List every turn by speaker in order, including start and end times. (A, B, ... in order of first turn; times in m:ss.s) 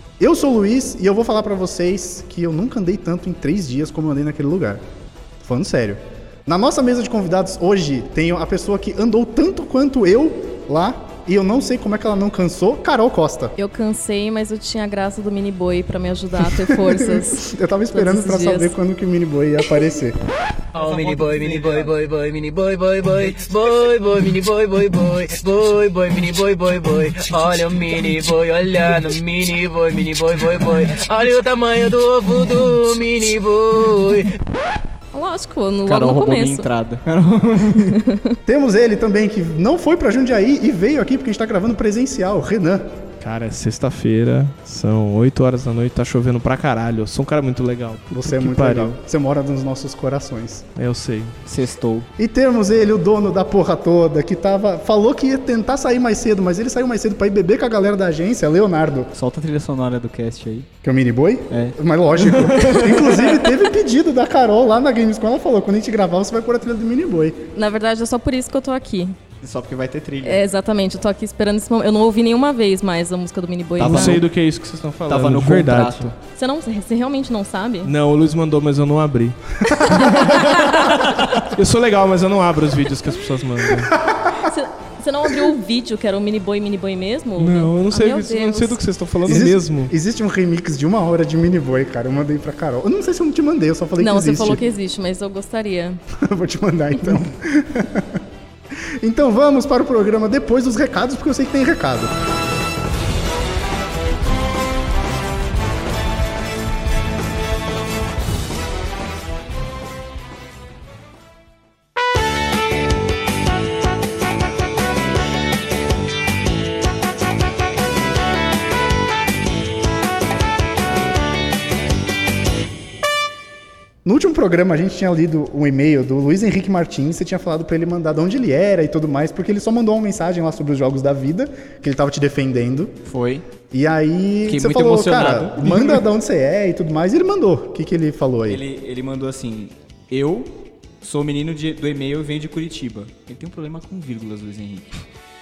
0:00.2-0:04.8 A
0:05.4-0:13.5 A
0:13.6-0:18.7 B
0:16.5-0:20.2 A
0:20.7-0:34.3 C
0:20.8-0:21.9 D
0:35.1-0:36.7 B
0:35.9-0:38.0 D
0:37.8-0:38.4 B
0:38.5-0:42.9 A
0:43.2-0:49.0 E
0:48.1-0:50.7 A
0:50.8-0:51.4 E
0:51.5-0:52.1 D
0:52.2-0:59.1 A
0:59.1-1:00.7 D
1:00.8-1:07.4 A
1:01.5-1:03.4 D
1:07.6-1:09.2 B
1:09.4-1:10.4 D
1:10.2-1:14.2 B
1:13.8-1:14.3 D
1:13.8-1:16.1 E
1:15.1-1:16.2 D
1:16.3-1:17.9 B
1:17.8-1:24.0 E
1:19.8-1:21.0 B
1:23.9-1:24.5 A
1:24.3-1:28.8 B
1:27.4-1:29.9 E
1:29.2-1:34.6 A
1:34.0-1:36.0 B
1:36.1-1:38.2 A
1:39.0-1:42.1 A
2:04.0-2:13.0 A
2:13.1-2:13.5 D
2:13.7-2:18.6 A
2:14.5-2:16.1 D
2:18.5-2:24.9 D